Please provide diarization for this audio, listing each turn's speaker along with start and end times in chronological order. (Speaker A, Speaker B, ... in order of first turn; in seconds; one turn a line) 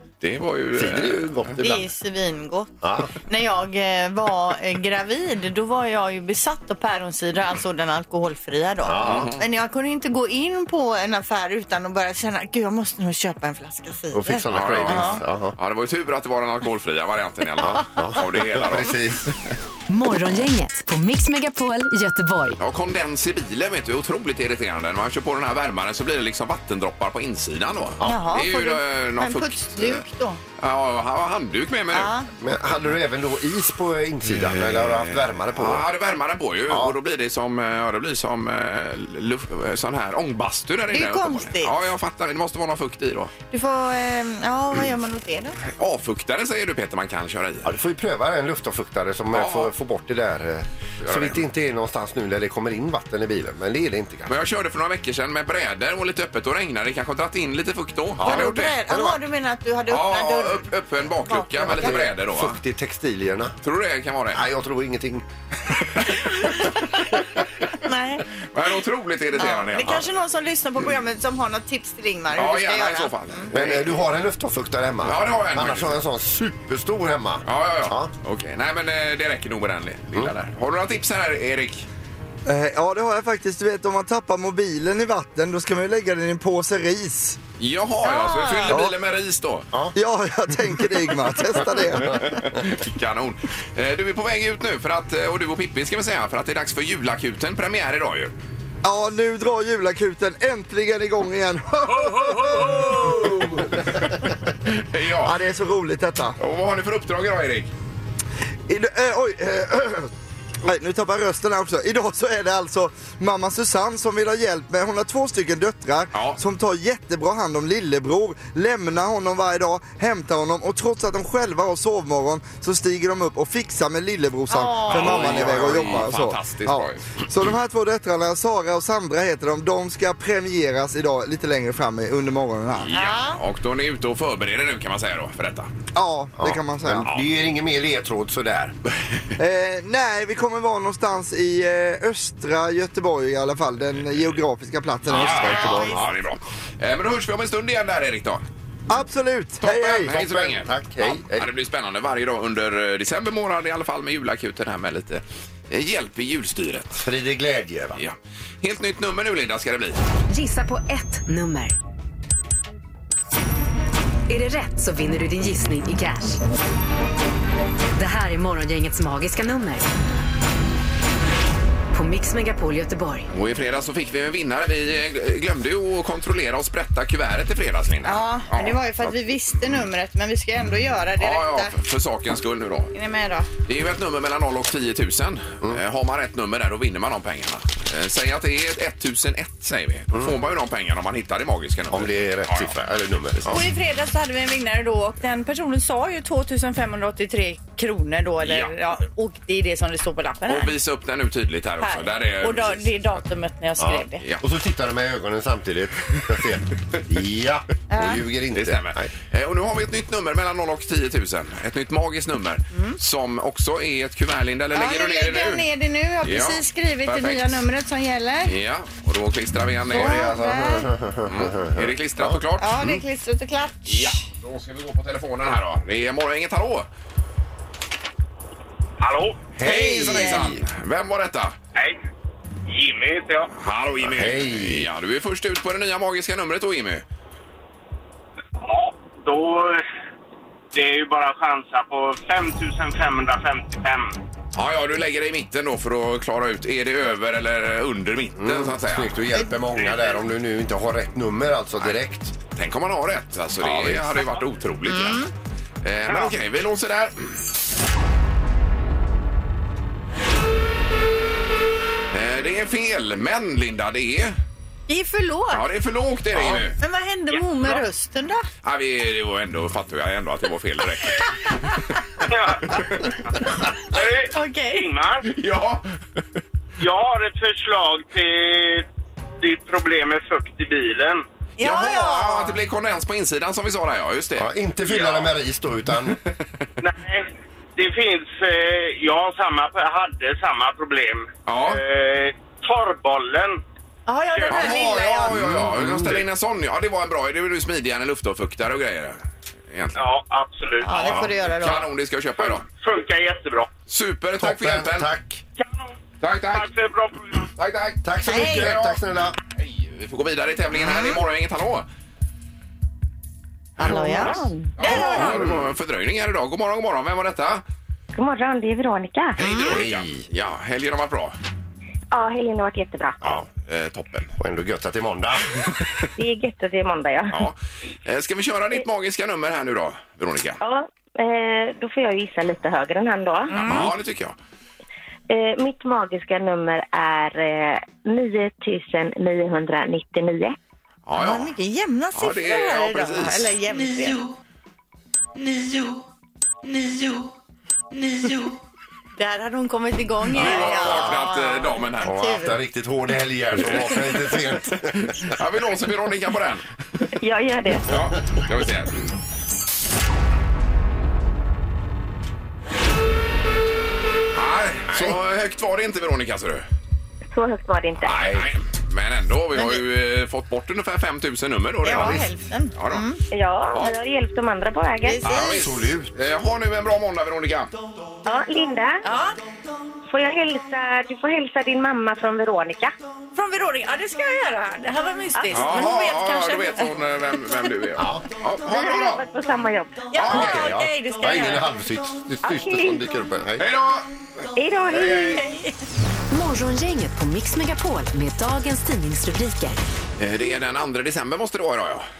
Speaker A: 0.2-1.6
Speaker B: 0.7-1.8
Speaker C: 1.6-15.2
Speaker B: 2.8-3.1
Speaker B: 8.8-9.3
Speaker A: 9.0-9.4
Speaker B: 14.1-15.5
Speaker A: 14.5-19.1
Speaker B: 17.6-19.3
Speaker D: 19.9-22.6
Speaker A: 22.6-30.0
Speaker B: 28.0-28.3
Speaker C: 28.0-30.4
Speaker A: 30.6-32.1
Speaker C: 31.9-32.3
Speaker B: 32.4-35.9
Speaker A: 34.2-43.3
Speaker B: 36.7-36.9
Speaker C: 40.9-41.8
Speaker C: 43.5-45.5
Speaker A: 45.8-47.7
Speaker B: 47.6-54.3
Speaker A: 49.3-49.7
Speaker A: 51.0-51.4
Speaker A: 54.3-58.8
Speaker B: 58.2-59.2
Speaker C: 58.2-60.6
Speaker A: 59.9-62.6
Speaker C: 61.2-62.0
Speaker B: 61.7-63.5
Speaker A: 63.6-64.4
Speaker B: 64.3-65.2
Speaker C: 66.2-67.1
Speaker C: 67.7-68.3
Speaker A: 68.5-70.0
Speaker C: 69.3-73.5
Speaker A: 72.3-74.0
Speaker B: 73.5-78.1
Speaker A: 75.0-76.0
Speaker A: 77.4-81.9
Speaker E: 82.5-87.4
Speaker A: 87.6-89.7
Speaker C: 88.0-88.8
Speaker E: 88.7-88.9
Speaker E: 89.9-92.4
Speaker A: 92.2-98.3
Speaker E: 98.8-103.8
Speaker A: 101.9-104.1
Speaker A: 104.7-105.3
Speaker E: 105.2-106.4
Speaker A: 106.4-107.7
Speaker E: 108.7-110.1
Speaker E: 110.6-132.9
Speaker A: 116.1-116.4
Speaker C: 124.5-125.5
Speaker A: 124.9-127.1
Speaker A: 132.8-135.7
Speaker C: 132.9-133.4
Speaker E: 135.9-137.1
Speaker B: 136.4-138.7
Speaker E: 139.4-146.0
Speaker A: 145.1-148.4
Speaker B: 145.5-146.1
Speaker E: 148.9-150.1
Speaker A: 149.6-157.0
Speaker B: 149.8-151.5
Speaker B: 157.0-158.0
Speaker A: 157.9-160.0
Speaker D: 160.3-161.8
Speaker D: 164.3-166.4
Speaker D: 167.9-169.9
Speaker D: 171.9-173.3
Speaker A: 173.3-178.8
Speaker C: 178.0-181.7
Speaker A: 181.2-182.9
Speaker C: 182.9-183.5
Speaker A: 183.7-192.7
Speaker B: 191.9-193.7
Speaker C: 193.5-200.7
Speaker A: 198.4-198.7
Speaker A: 200.4-202.9
Speaker C: 201.8-204.2
Speaker B: 203.8-209.1
Speaker C: 207.9-208.2
Speaker A: 208.5-215.6
Speaker C: 212.7-213.0
Speaker C: 214.7-218.5
Speaker A: 216.2-217.6
Speaker A: 218.4-220.3
Speaker B: 219.9-223.0
Speaker C: 219.9-220.9
Speaker A: 221.2-222.8
Speaker C: 222.6-224.2
Speaker A: 223.8-226.9
Speaker F: 229.0-229.4
Speaker B: 229.6-230.6
Speaker A: 229.6-231.5
Speaker C: 229.6-230.5
Speaker F: 232.7-233.5
Speaker A: 233.5-237.0
Speaker B: 234.0-234.9
Speaker F: 238.6-239.8
Speaker F: 240.7-244.2
Speaker A: 244.5-249.2
Speaker B: 248.4-252.3
Speaker A: 252.5-255.2
Speaker B: 253.6-254.2
Speaker C: 254.9-255.3
Speaker A: 255.8-257.4
Speaker A: 262.1-264.4
Speaker C: 264.9-265.6
Speaker A: 265.5-266.8
Speaker C: 266.8-268.4
Speaker A: 268.6-271.5
Speaker F: 272.2-272.7
Speaker F: 273.9-275.3
Speaker C: 274.3-274.9
Speaker A: 275.3-275.9
Speaker F: 276.8-278.9
Speaker F: 279.4-281.2
Speaker C: 281.6-282.6
Speaker A: 281.6-285.2
Speaker B: 284.4-286.2
Speaker F: 286.8-293.6
Speaker A: 291.5-291.8
Speaker C: 294.1-295.4
Speaker F: 294.3-294.8
Speaker A: 294.5-299.2
Speaker B: 295.3-296.2
Speaker A: 299.7-300.0
Speaker F: 299.9-301.2
Speaker C: 300.8-301.8
Speaker A: 301.5-302.6
Speaker F: 302.4-303.7
Speaker A: 303.9-305.1
Speaker B: 304.4-305.4
Speaker A: 306.2-306.7
Speaker F: 306.5-307.4
Speaker A: 307.6-311.9
Speaker B: 308.0-309.4
Speaker C: 308.2-308.7
Speaker C: 313.8-315.4
Speaker A: 313.8-317.6
Speaker G: 313.9-314.7
Speaker B: 315.1-315.6
Speaker G: 318.1-319.4
Speaker A: 319.4-321.3
Speaker C: 319.4-319.8
Speaker B: 319.7-320.2
Speaker G: 322.1-323.2
Speaker A: 323.2-324.3
Speaker B: 324.4-325.7
Speaker G: 326.2-327.4
Speaker A: 327.3-330.6
Speaker G: 330.6-333.5
Speaker C: 333.5-333.9
Speaker A: 333.5-334.3
Speaker G: 335.3-340.6
Speaker A: 341.1-341.5
Speaker C: 341.2-344.2
Speaker A: 342.1-343.5
Speaker C: 349.2-352.6
Speaker B: 350.3-351.2
Speaker A: 350.3-352.1
Speaker B: 352.0-355.3
Speaker A: 353.7-354.2
Speaker A: 355.1-356.7
Speaker G: 357.2-357.9
Speaker A: 357.9-359.1
Speaker A: 364.3-366.6
Speaker B: 364.9-365.2
Speaker G: 367.3-368.1
Speaker A: 368.0-372.2
Speaker C: 369.5-369.8
Speaker C: 371.8-373.2
Speaker B: 371.9-372.2
Speaker A: 372.8-373.0
Speaker G: 373.3-375.2
Speaker C: 375.0-375.6
Speaker A: 375.2-377.7
Speaker B: 375.3-376.1
Speaker G: 378.2-379.0
Speaker C: 379.0-379.4
Speaker G: 380.1-382.9
Speaker C: 383.3-386.9
Speaker A: 385.5-389.2
Speaker B: 388.0-388.2
Speaker G: 388.6-390.1
Speaker C: 390.1-391.7
Speaker A: 390.1-390.7
Speaker B: 390.2-393.7
Speaker G: 392.4-393.0
Speaker A: 393.6-394.1
Speaker G: 394.5-395.4
Speaker A: 394.9-395.4
Speaker C: 395.2-395.7
Speaker D: 396.3-399.8
Speaker A: 400.2-402.0